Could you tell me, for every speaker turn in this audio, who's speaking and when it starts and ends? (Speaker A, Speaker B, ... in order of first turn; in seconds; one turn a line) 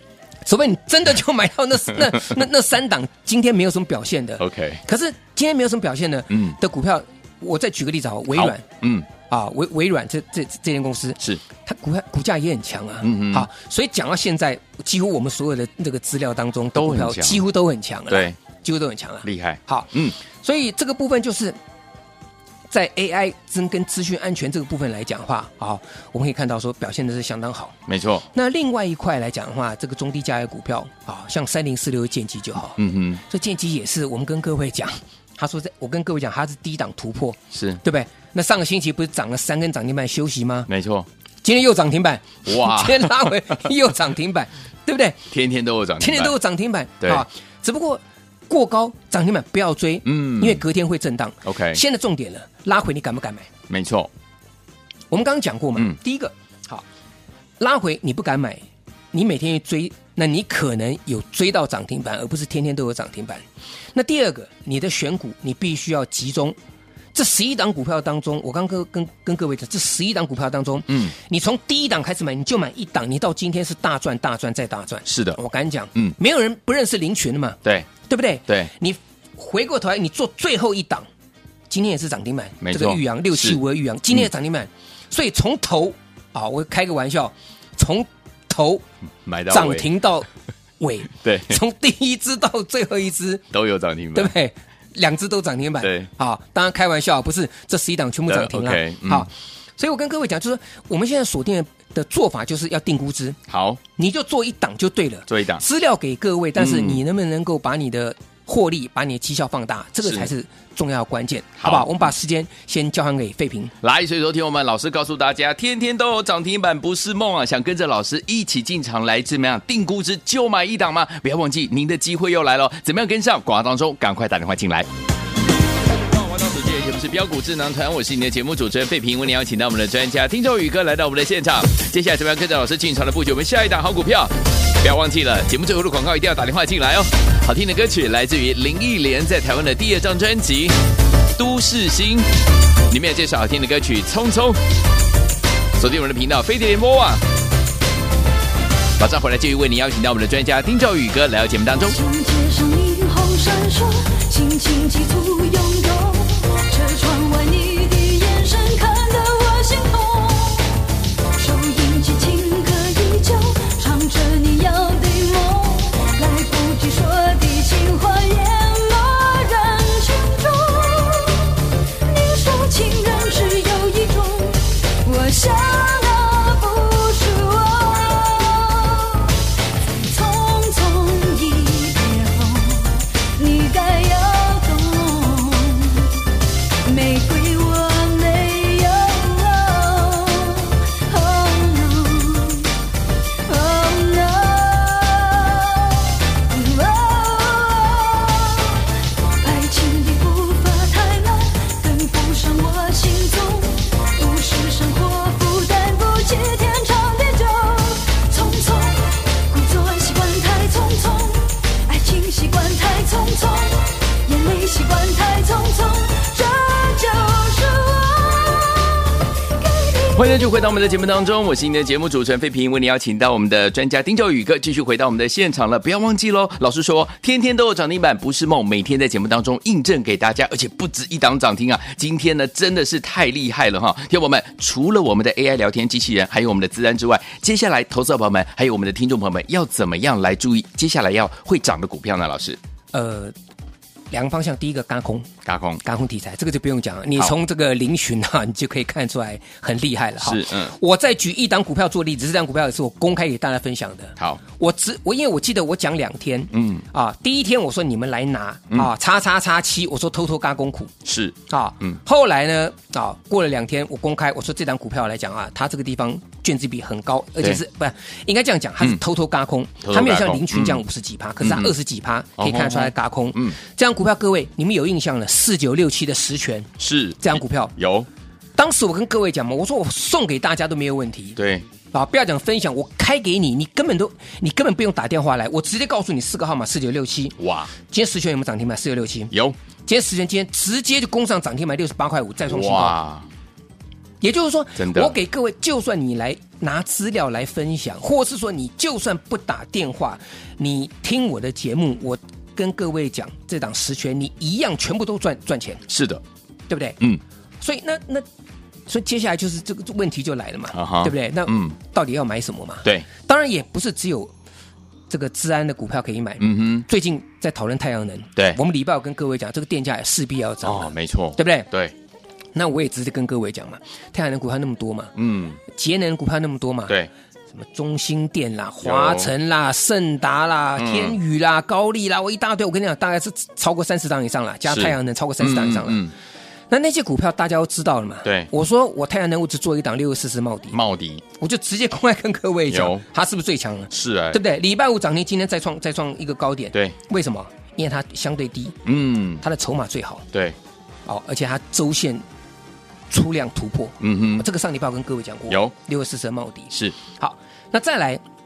Speaker A: 0.4-8.6
Speaker B: 4.4-4.8
Speaker B: 6.3-6.6
Speaker B: 8.3-9.1
Speaker A: 9.3-21.6
Speaker B: 13.0-13.5
Speaker B: 16.7-17.4
Speaker B: 18.1-18.4
Speaker B: 19.2-20.1
Speaker A: 22.7-27.7
Speaker B: 27.9-28.2
Speaker A: 28.3-40.7
Speaker B: 32.8-33.2
Speaker B: 37.5-37.8
Speaker B: 40.7-41.1
Speaker A: 41.4-45.2
Speaker B: 42.5-43.3
Speaker B: 45.3-46.4
Speaker A: 46.0-53.5
Speaker B: 50.0-50.6
Speaker B: 51.4-51.8
Speaker B: 53.7-54.1
Speaker A: 55.1-56.8
Speaker A: 57.6-63.4
Speaker A: 63.9-66.6
Speaker A: 67.1-81.1
Speaker B: 70.9-71.1
Speaker B: 75.0-75.4
Speaker B: 77.6-77.9
Speaker A: 81.7-88.8
Speaker B: 82.6-83.6
Speaker B: 89.2-89.9
Speaker A: 89.5-90.3
Speaker A: 90.8-93.4
Speaker B: 91.2-91.6
Speaker B: 93.5-94.3
Speaker A: 94.1-103.4
Speaker B: 95.8-96.1
Speaker B: 98.3-99.3
Speaker B: 103.5-103.8
Speaker A: 104.0-113.7
Speaker B: 105.3-105.6
Speaker B: 106.6-107.0
Speaker B: 110.0-110.3
Speaker B: 111.6-111.9
Speaker B: 113.8-124.9
Speaker B: 125.9-140.8
Speaker B: 141.3-142.3
Speaker B: 142.9-144.6
Speaker B: 145.8-147.2
Speaker B: 149.0-152.0
Speaker C: 151.8-160.7
Speaker C: 161.3-186.1
Speaker C: 186.8-192.7
Speaker C: 193.4-198.8
Speaker C: 199.4-220.7
Speaker B: 220.1-242.6
Speaker A: 242.9-243.3
Speaker A: 244.1-245.3
Speaker B: 245.4-245.8
Speaker A: 245.8-260.9
Speaker B: 250.2-250.7
Speaker B: 256.5-256.8
Speaker B: 261.0-262.0
Speaker A: 261.5-277.7
Speaker B: 269.8-270.8
Speaker B: 271.4-271.7
Speaker B: 272.4-273.6
Speaker B: 276.8-278.1
Speaker A: 278.6-281.4
Speaker B: 281.4-281.6
Speaker A: 281.9-289.3
Speaker B: 287.4-287.7
Speaker A: 289.9-292.9
Speaker B: 292.5-293.3
Speaker A: 294.2-305.8
Speaker B: 294.8-295.1
Speaker B: 305.9-306.2
Speaker A: 306.7-307.0
Speaker A: 307.6-308.3
Speaker A: 308.9-314.3
Speaker B: 310.7-311.8
Speaker A: 315.1-321.7
Speaker B: 316.4-316.9
Speaker B: 320.6-321.9
Speaker A: 322.5-325.1
Speaker B: 325.1-325.6
Speaker A: 325.7-326.9
Speaker A: 327.5-336.0
Speaker B: 328.8-329.3
Speaker B: 330.8-331.1
Speaker B: 334.7-336.1
Speaker A: 336.7-340.8
Speaker B: 340.7-341.2
Speaker A: 341.4-348.8
Speaker B: 342.7-343.0
Speaker B: 343.9-344.4
Speaker B: 348.8-349.4
Speaker A: 349.4-350.2
Speaker A: 351.1-352.2
Speaker A: 353.1-358.2
Speaker B: 354.0-354.4